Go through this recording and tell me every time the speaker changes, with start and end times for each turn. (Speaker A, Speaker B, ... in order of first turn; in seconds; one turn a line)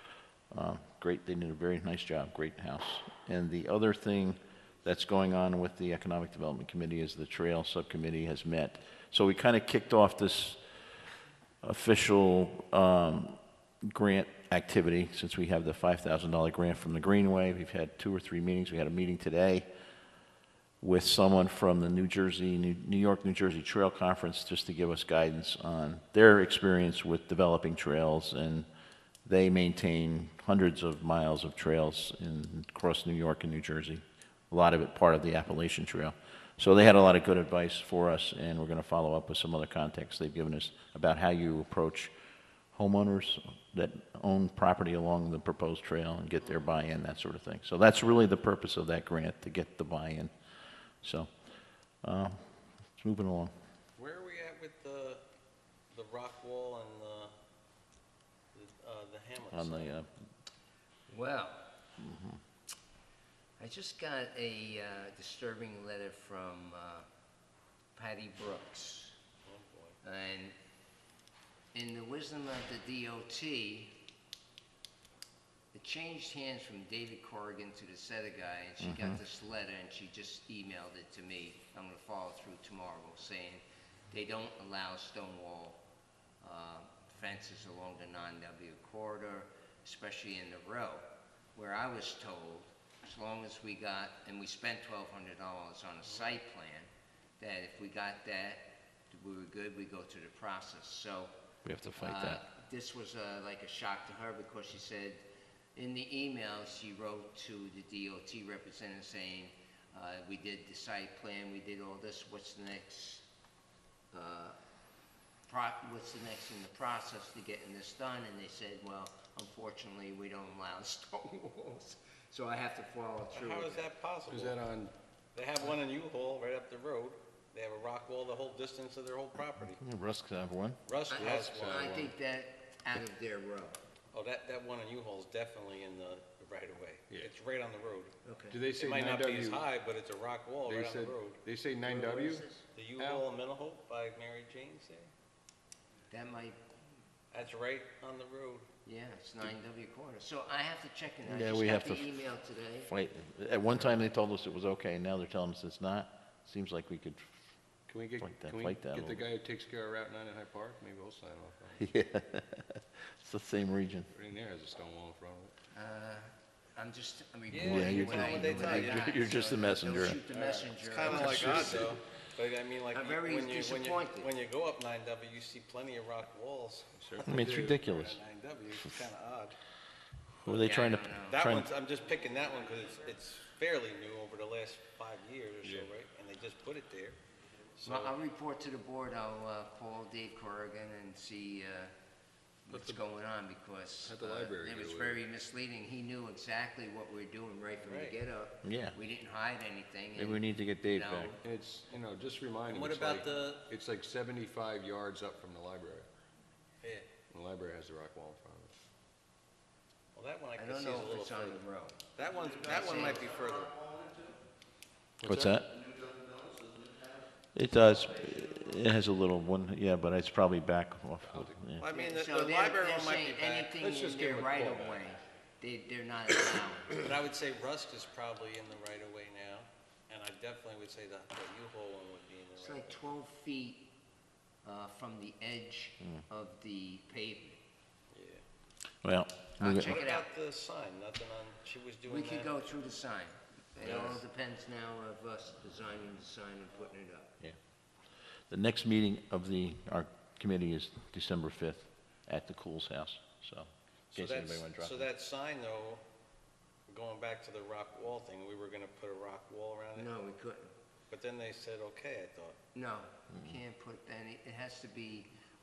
Speaker A: 0.5-10.6
Speaker A: 11.6-19.7
Speaker A: 20.8-28.7
Speaker A: 29.2-42.1
Speaker A: 42.7-50.3
Speaker A: 51.0-51.3
Speaker A: 52.0-53.5
Speaker B: 54.0-55.2
Speaker B: 55.9-57.3
Speaker B: 58.5-60.0
Speaker A: 59.5-60.1
Speaker C: 61.1-61.7
Speaker A: 62.0-62.4
Speaker C: 63.6-67.1
Speaker C: 68.0-69.2
Speaker B: 69.5-70.0
Speaker C: 70.0-70.5
Speaker C: 71.7-74.0
Speaker C: 75.7-85.8
Speaker A: 78.8-79.2
Speaker C: 86.4-96.9
Speaker B: 96.1-96.3
Speaker C: 97.4-101.3
Speaker A: 101.7-102.4
Speaker C: 102.0-105.2
Speaker C: 105.8-113.3
Speaker C: 114.1-114.6
Speaker C: 115.5-123.9
Speaker B: 123.3-124.6
Speaker D: 124.3-124.9
Speaker B: 125.3-129.8
Speaker A: 129.7-130.8
Speaker B: 130.9-132.0
Speaker C: 131.1-133.8
Speaker D: 131.2-132.1
Speaker B: 134.1-138.2
Speaker C: 138.2-138.6
Speaker D: 138.5-139.7
Speaker B: 138.8-141.4
Speaker D: 140.7-143.2
Speaker C: 141.9-142.6
Speaker B: 142.7-145.1
Speaker C: 146.1-146.6
Speaker B: 147.3-148.7
Speaker C: 148.8-152.9
Speaker A: 151.2-152.1
Speaker A: 152.8-157.3
Speaker D: 157.9-161.8
Speaker A: 158.2-159.3
Speaker A: 161.8-164.1
Speaker D: 164.1-165.5
Speaker C: 165.7-171.9
Speaker B: 167.5-169.2
Speaker A: 167.6-170.2
Speaker D: 170.3-171.8
Speaker B: 170.7-179.6
Speaker A: 171.0-172.0
Speaker C: 172.9-174.3
Speaker D: 177.0-177.8
Speaker A: 177.2-178.2
Speaker A: 180.4-181.7
Speaker B: 180.4-187.2
Speaker C: 180.6-181.4
Speaker D: 185.6-185.9
Speaker B: 187.8-188.2
Speaker C: 187.8-191.9
Speaker C: 192.7-201.4
Speaker D: 192.7-193.0
Speaker D: 194.0-195.2
Speaker B: 197.8-198.2
Speaker A: 198.6-199.0
Speaker A: 200.2-201.3
Speaker D: 201.4-206.1
Speaker B: 202.7-203.7
Speaker B: 206.8-207.1
Speaker D: 207.3-208.8
Speaker B: 210.2-211.6
Speaker C: 210.6-212.0
Speaker B: 212.2-213.8
Speaker C: 212.6-213.2
Speaker A: 215.2-215.8
Speaker D: 215.2-215.6
Speaker A: 217.5-221.8
Speaker D: 221.2-221.7
Speaker B: 221.8-223.8
Speaker C: 221.9-227.0
Speaker D: 223.8-225.1
Speaker B: 227.0-233.0
Speaker C: 232.6-233.9
Speaker C: 234.6-237.6
Speaker B: 238.1-238.4
Speaker A: 239.0-240.0
Speaker C: 239.6-240.3
Speaker B: 239.7-242.6
Speaker C: 242.1-247.4
Speaker B: 243.8-244.2
Speaker A: 248.5-255.1
Speaker B: 254.1-256.0
Speaker B: 256.9-260.1
Speaker C: 260.0-260.7
Speaker B: 261.1-262.6
Speaker C: 262.7-265.3
Speaker A: 263.3-263.6